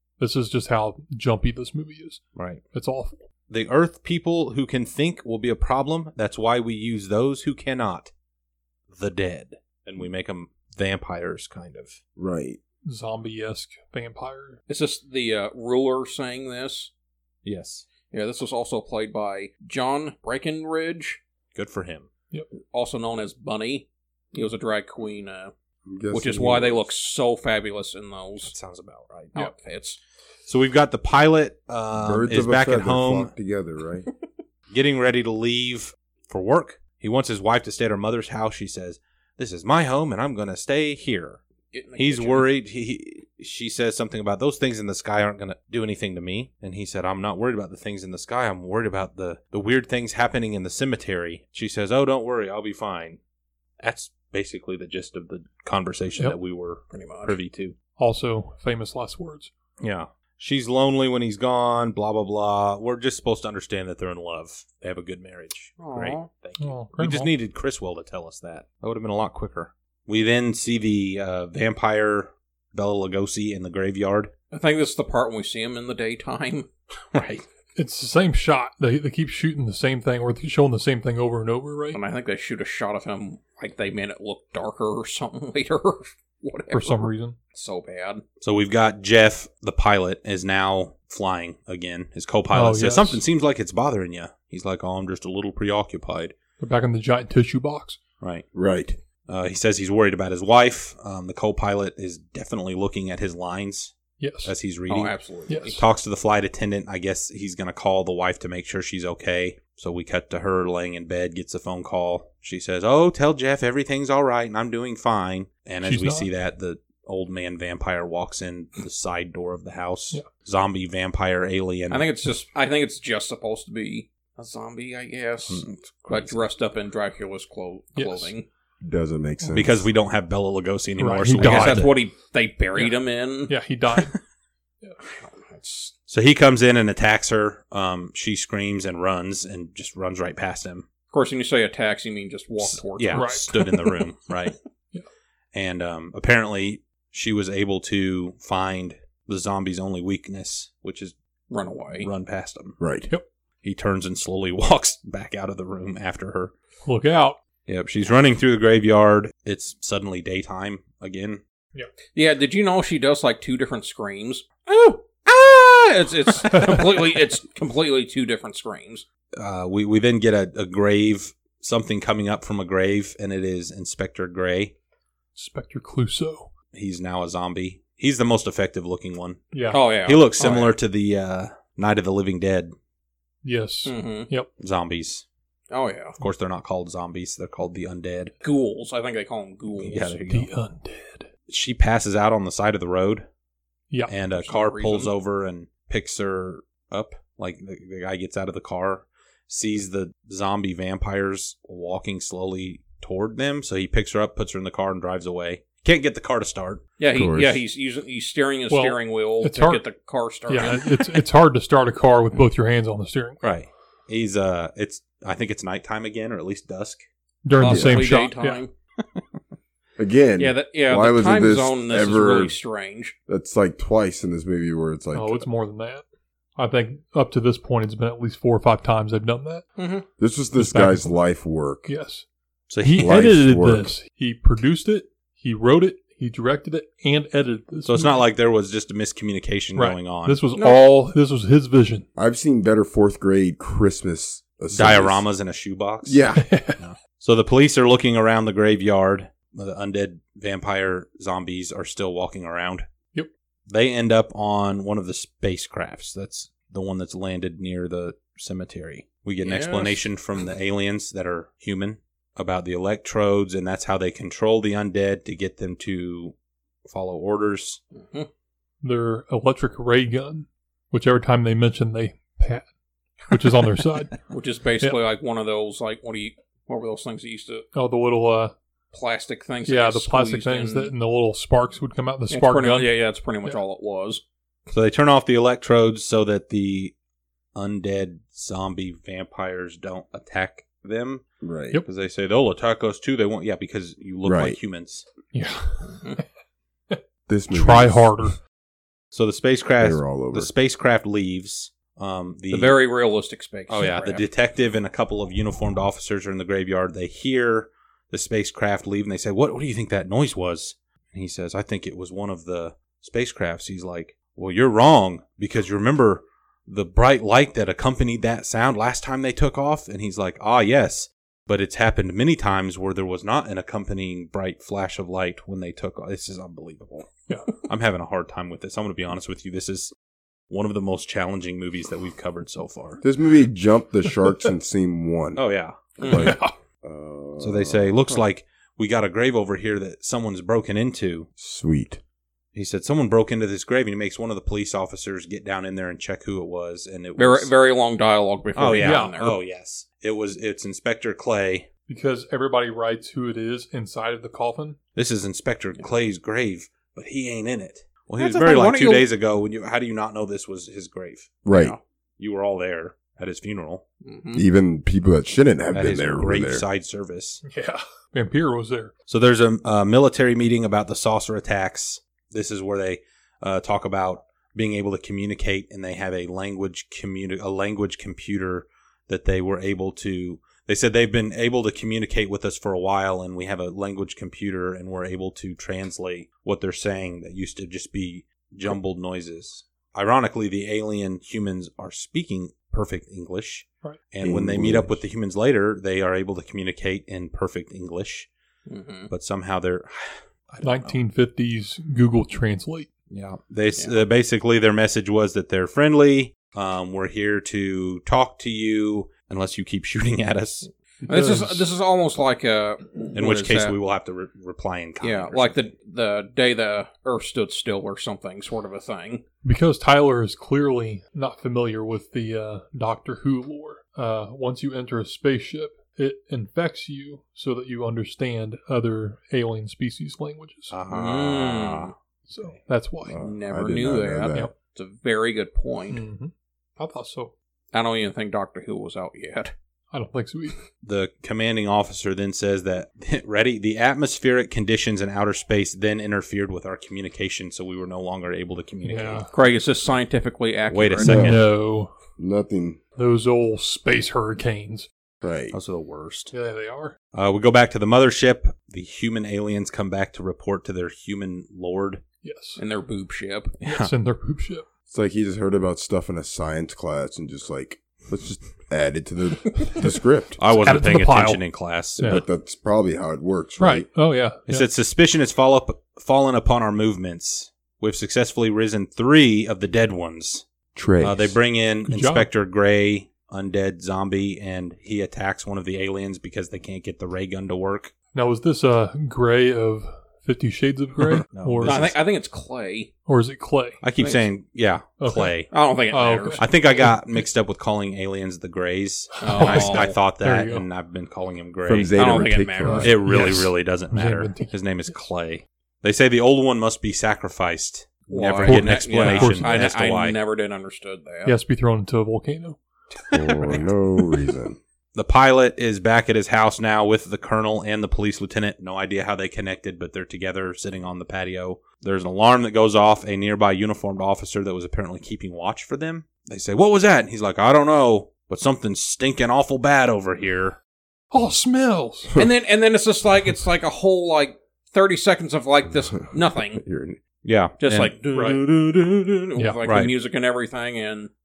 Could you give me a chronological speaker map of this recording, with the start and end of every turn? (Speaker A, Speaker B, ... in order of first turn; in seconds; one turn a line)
Speaker A: 0.2-3.2
Speaker B: 2.4-2.6
Speaker B: 3.5-8.1
Speaker B: 8.9-12.0
Speaker C: 12.2-12.6
Speaker A: 12.8-14.6
Speaker D: 14.7-16.9
Speaker B: 17.4-17.9
Speaker D: 18.1-21.2
Speaker B: 21.6-22.1
Speaker D: 22.6-25.5
Speaker C: 25.9-26.9
Speaker D: 26.1-28.5
Speaker B: 28.4-29.5
Speaker D: 29.4-30.0
Speaker B: 30.5-33.3
Speaker C: 31.9-34.1
Speaker B: 34.7-41.4
Speaker D: 41.7-42.5
Speaker B: 42.0-53.2
Speaker B: 53.8-57.8
Speaker D: 56.9-57.4
Speaker A: 58.0-59.5
Speaker B: 59.8-74.3
Speaker D: 65.8-66.3
Speaker A: 66.6-67.3
Speaker D: 74.5-76.7
Speaker B: 77.1-77.5
Speaker A: 77.8-82.0
Speaker D: 81.9-88.2
Speaker A: 86.7-87.3
Speaker B: 88.4-96.3
Speaker A: 92.5-93.2
Speaker A: 96.6-98.0
Speaker B: 98.2-98.5
Speaker C: 98.5-99.0
Speaker B: 99.3-105.2
Speaker A: 104.2-104.5
Speaker D: 104.9-105.8
Speaker A: 105.5-105.8
Speaker B: 105.7-122.1
Speaker A: 115.8-116.3
Speaker D: 121.9-128.5
Speaker B: 125.5-126.4
Speaker A: 128.0-128.3
Speaker C: 128.8-129.9
Speaker B: 129.5-132.0
Speaker A: 131.0-131.9
Speaker D: 131.4-133.6
Speaker A: 133.5-134.2
Speaker D: 135.1-135.9
Speaker B: 136.1-140.8
Speaker D: 141.1-143.5
Speaker B: 142.6-144.6
Speaker A: 143.1-144.0
Speaker B: 145.5-151.2
Speaker D: 151.5-152.1
Speaker B: 152.0-152.8
Speaker C: 152.8-153.1
Speaker B: 153.6-156.5
Speaker A: 156.8-157.4
Speaker B: 157.7-161.4
Speaker D: 162.1-169.1
Speaker A: 166.5-166.8
Speaker B: 169.4-174.7
Speaker A: 175.4-176.5
Speaker B: 176.7-182.7
Speaker A: 179.5-179.8
Speaker D: 179.7-180.7
Speaker A: 183.4-184.5
Speaker D: 183.8-184.3
Speaker B: 184.6-185.2
Speaker D: 185.7-186.2
Speaker B: 186.2-188.3
Speaker D: 188.4-190.2
Speaker B: 189.8-190.5
Speaker A: 190.3-191.3
Speaker B: 191.5-193.3
Speaker B: 194.1-206.8
Speaker D: 194.4-195.1
Speaker D: 207.0-211.2
Speaker C: 207.1-207.6
Speaker A: 208.7-209.8
Speaker A: 210.5-213.4
Speaker B: 213.4-217.0
Speaker A: 217.4-218.6
Speaker D: 217.6-218.7
Speaker C: 217.6-218.0
Speaker C: 220.0-222.5
Speaker D: 220.4-223.2
Speaker C: 223.3-225.5
Speaker A: 225.1-226.0
Speaker A: 226.6-229.7
Speaker D: 229.8-230.1
Speaker C: 230.2-231.9
Speaker A: 230.6-231.1
Speaker A: 231.9-232.2
Speaker B: 232.7-233.2
Speaker A: 232.8-238.2
Speaker C: 233.0-233.9
Speaker B: 237.8-240.4
Speaker A: 239.8-242.1
Speaker D: 240.6-240.8
Speaker C: 242.2-245.2
Speaker B: 244.7-252.8
Speaker C: 246.1-246.7
Speaker A: 246.4-246.8
Speaker B: 253.7-266.4
Speaker D: 259.4-260.1
Speaker B: 266.9-267.8
Speaker D: 268.0-268.3
Speaker A: 268.8-272.6
Speaker A: 273.3-274.2
Speaker D: 274.3-277.7
Speaker A: 277.7-278.5
Speaker D: 278.9-280.9
Speaker A: 279.7-282.9
Speaker D: 282.3-284.2
Speaker B: 284.7-286.9
Speaker B: 287.6-291.2
Speaker C: 291.4-291.8
Speaker B: 291.8-295.1
Speaker C: 294.2-294.6
Speaker A: 295.3-296.2
Speaker C: 297.3-298.3
Speaker A: 297.5-298.4
Speaker B: 299.1-302.8
Speaker C: 299.8-300.5
Speaker D: 302.5-304.3
Speaker B: 303.7-327.1
Speaker B: 327.6-329.9
Speaker B: 330.5-333.0
Speaker C: 333.0-335.4
Speaker B: 335.4-336.2
Speaker C: 336.0-338.2
Speaker D: 336.0-336.3
Speaker A: 336.1-336.5
Speaker B: 337.4-341.3
Speaker C: 341.4-342.0
Speaker B: 342.5-347.5
Speaker D: 347.2-349.4
Speaker B: 348.6-351.7
Speaker A: 348.8-349.2
Speaker A: 351.9-354.8
Speaker B: 354.9-361.4
Speaker D: 358.2-359.1
Speaker C: 361.4-361.8
Speaker D: 361.5-361.8
Speaker B: 362.2-363.8
Speaker D: 364.1-364.4
Speaker C: 364.3-366.7
Speaker B: 365.7-367.4
Speaker A: 367.4-368.9
Speaker B: 369.1-398.3
Speaker C: 394.2-395.0
Speaker D: 398.7-399.1
Speaker B: 399.1-401.0
Speaker A: 400.6-402.9
Speaker B: 403.1-410.7
Speaker A: 411.1-411.6
Speaker D: 411.1-413.8
Speaker B: 413.1-415.7
Speaker D: 415.0-419.2
Speaker A: 419.4-430.7
Speaker B: 430.7-432.5
Speaker D: 430.9-431.9
Speaker A: 432.3-433.2
Speaker C: 433.1-434.5
Speaker D: 433.2-436.0
Speaker A: 435.9-437.3
Speaker D: 437.7-439.5
Speaker A: 439.9-440.6
Speaker B: 440.8-449.3
Speaker A: 448.8-449.3
Speaker D: 449.3-451.3
Speaker B: 450.7-451.4
Speaker C: 451.0-451.5
Speaker A: 451.1-451.9
Speaker C: 452.2-452.8
Speaker A: 453.0-454.9
Speaker C: 455.2-455.6
Speaker B: 455.5-456.3
Speaker A: 456.3-456.9
Speaker B: 457.1-462.0
Speaker A: 462.2-462.6
Speaker D: 462.6-463.6
Speaker B: 463.6-463.9
Speaker A: 463.6-464.7
Speaker C: 464.9-470.4
Speaker B: 470.4-472.2
Speaker A: 470.5-471.4
Speaker C: 472.0-473.9
Speaker A: 472.0-472.2
Speaker A: 473.6-474.7
Speaker B: 474.5-480.4
Speaker C: 480.8-481.4
Speaker B: 481.0-487.9
Speaker A: 481.9-482.3
Speaker A: 488.1-491.9
Speaker B: 491.3-492.0
Speaker D: 491.6-492.9
Speaker A: 493.1-493.8
Speaker B: 493.8-495.5
Speaker D: 494.0-494.3
Speaker A: 495.0-495.3
Speaker D: 495.5-496.4
Speaker A: 495.9-497.2
Speaker B: 496.4-510.2
Speaker A: 499.2-500.7
Speaker D: 499.2-499.9
Speaker C: 501.6-503.0
Speaker D: 501.9-503.0
Speaker A: 502.6-505.0
Speaker D: 508.1-511.4
Speaker A: 508.4-509.6
Speaker A: 511.2-512.6
Speaker B: 513.1-513.6
Speaker C: 513.1-514.6
Speaker B: 515.0-530.6
Speaker A: 531.1-532.1
Speaker D: 532.2-536.6
Speaker C: 536.1-537.0
Speaker B: 537.2-537.9
Speaker D: 537.6-541.1
Speaker A: 538.1-538.4
Speaker B: 539.7-539.9